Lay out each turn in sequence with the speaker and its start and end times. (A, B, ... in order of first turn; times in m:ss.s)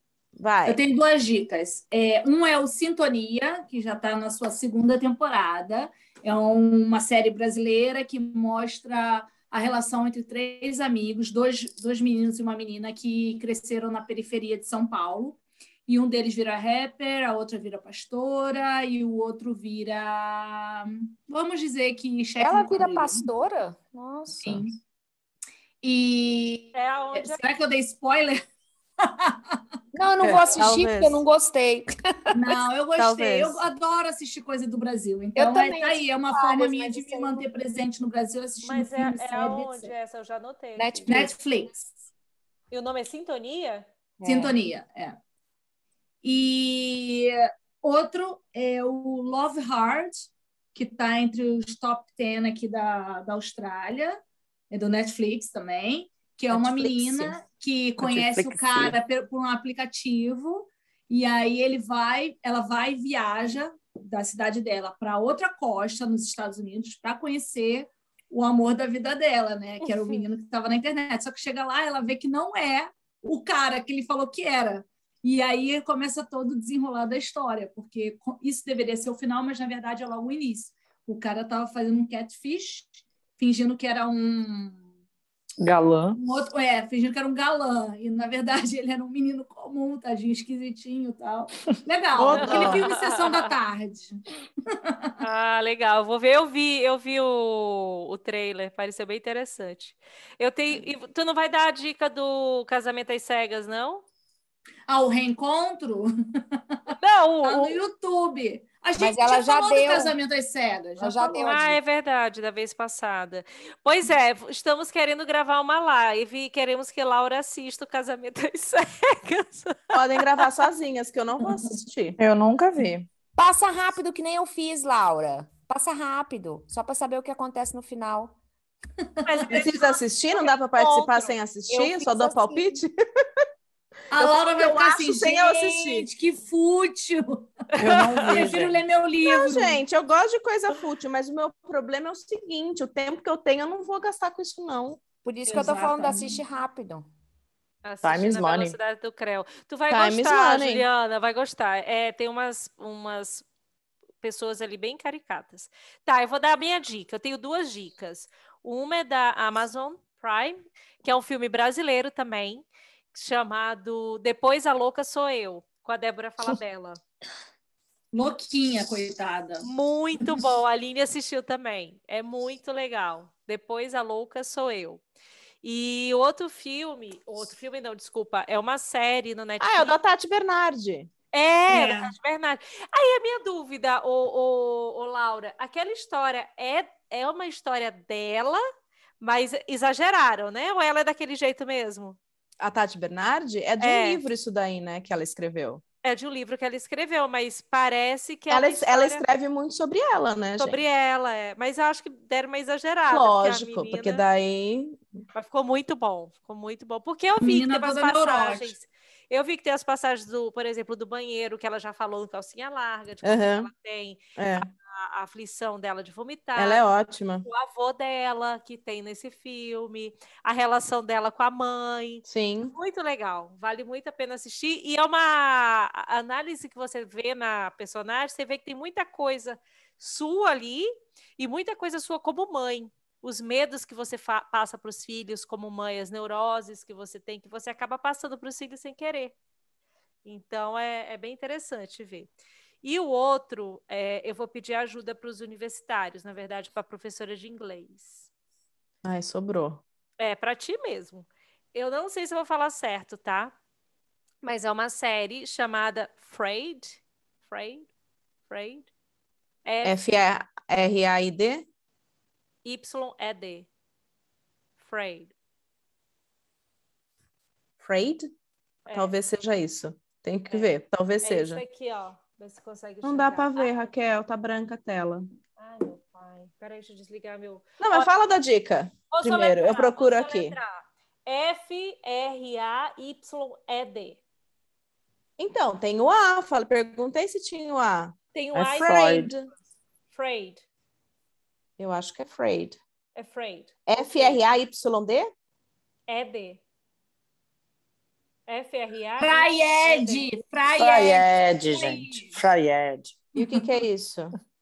0:00.4-0:00.8 A
0:00.7-0:23.3 B
0:22.4-0:24.7 C
0:24.4-0:24.7 B
0:25.8-0:28.4 B
0:26.8-0:27.4 D
0:29.0-0:29.6 B
0:29.9-0:32.7 C
0:30.2-0:31.2 A
0:32.3-0:39.9 B
0:33.0-0:33.6 A
0:35.4-0:37.5 C
0:38.6-0:41.1 D
0:40.8-0:41.4 C
0:41.1-0:41.8 B
0:42.7-0:43.9 D
0:44.2-0:44.6 C
0:44.2-0:45.2 B
0:46.2-0:54.2 B
0:54.7-1:24.8 B
0:56.5-0:57.3 A
0:58.0-0:59.0 E
1:25.6-1:26.2 E
1:26.2-1:35.2 B
1:32.2-1:32.9 A
1:32.3-1:33.5 D
1:35.2-1:44.0 D
1:44.9-1:46.8 B
1:46.9-1:47.8 D
1:47.4-1:51.7 B
1:49.0-1:50.2 C
1:51.0-1:51.8 C
1:51.4-2:00.5 D
1:59.9-2:02.2 A
2:02.2-2:03.1 E
2:03.4-2:08.4 C
2:09.2-2:09.8 B
2:09.2-2:10.0 D
2:09.5-2:12.9 A
2:10.7-2:12.8 C
2:14.1-2:17.5 B
2:14.2-2:16.1 A
2:17.8-2:18.9 E
2:17.8-2:18.4 D
2:18.3-2:19.8 B
2:19.3-2:25.0 A
2:25.2-2:27.1 C
2:25.5-2:26.4 B
2:27.8-2:33.4 D
2:28.0-2:28.8 E
2:29.9-2:30.9 A
2:34.2-2:47.0 D
2:48.1-2:49.7 B
2:49.6-2:55.0 D
2:55.6-3:00.0 D
2:59.6-3:01.1 A
3:01.3-3:08.6 D
3:01.7-3:02.2 B
3:09.2-3:12.2 D
3:12.6-3:15.8 A
3:13.8-3:14.2 D
3:16.0-3:19.2 D
3:18.5-3:20.8 A
3:20.6-3:24.2 D
3:23.1-3:25.0 A
3:25.3-3:34.2 D
3:27.4-3:28.8 B
3:33.2-3:33.7 A
3:34.4-3:34.7 A
3:34.9-3:36.8 D
3:36.6-3:37.5 A
3:37.4-3:59.4 D
3:42.3-3:42.8 A
4:00.2-4:02.3 D
4:02.8-4:08.3 D
4:09.0-4:09.8 A
4:10.2-4:13.5 D
4:14.4-4:17.9 D
4:18.5-4:18.9 D
4:19.6-4:20.0 D
4:19.8-4:21.7 A
4:22.6-4:23.7 D
4:24.8-4:25.3 D
4:27.8-4:28.2 A
4:28.9-4:29.1 D
4:28.9-4:31.6 A
4:30.5-4:33.9 D
4:33.0-4:35.2 A
4:35.6-4:38.1 D
4:37.8-4:40.6 A
4:39.1-4:44.2 D
4:45.4-4:48.1 A
4:48.3-4:49.3 D
4:48.5-4:49.3 E
4:48.8-4:49.5 A
4:50.1-4:50.6 D
4:51.8-4:52.8 A
4:53.2-4:54.4 D
4:53.9-4:55.3 A
4:56.1-4:56.6 D
4:58.5-5:00.3 D
4:59.2-5:02.4 B
5:00.8-5:03.2 E
5:03.4-5:03.6 B
5:03.4-5:04.4 A